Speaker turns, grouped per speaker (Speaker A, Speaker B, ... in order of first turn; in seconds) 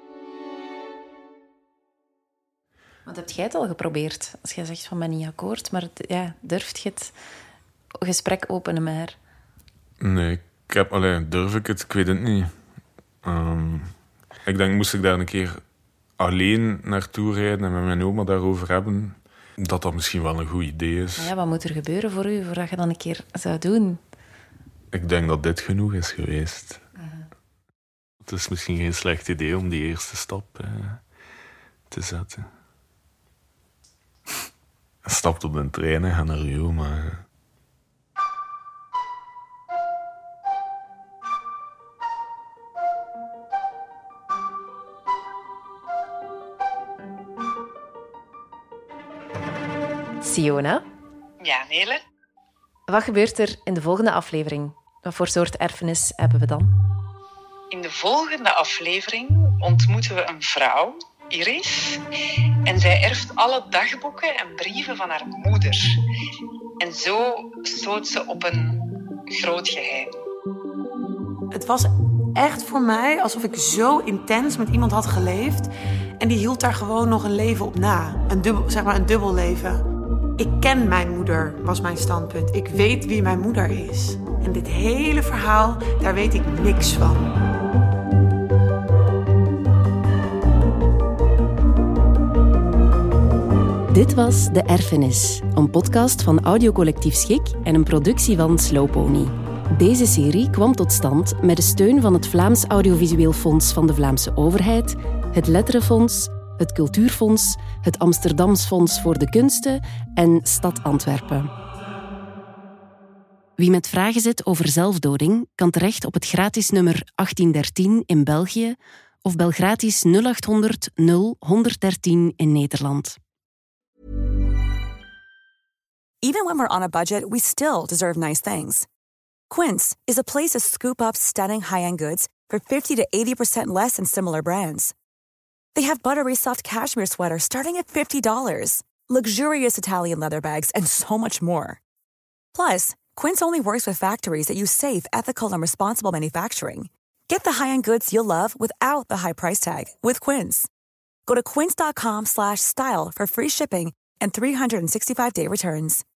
Speaker A: 3.0-7.1, 8.0-9.2, 21.2-24.0, 27.0-27.2, 50.2-50.8, 52.9-56.7
Speaker B: 10.0-12.5, 13.2-13.9, 14.4-15.6, 16.2-21.3, 24.9-26.8, 28.2-31.0, 31.9-32.5, 35.0-37.2
Speaker C: 51.4-52.0, 57.7-62.0, 62.6-66.0, 66.8-68.8, 69.3-70.1
Speaker D: 71.5-75.7, 76.2-79.8, 80.4-87.3
Speaker E: 93.9-111.5, 113.6-123.2
Speaker F: 126.2-128.8, 129.5-134.9, 135.7-141.8, 142.5-150.7, 151.2-156.0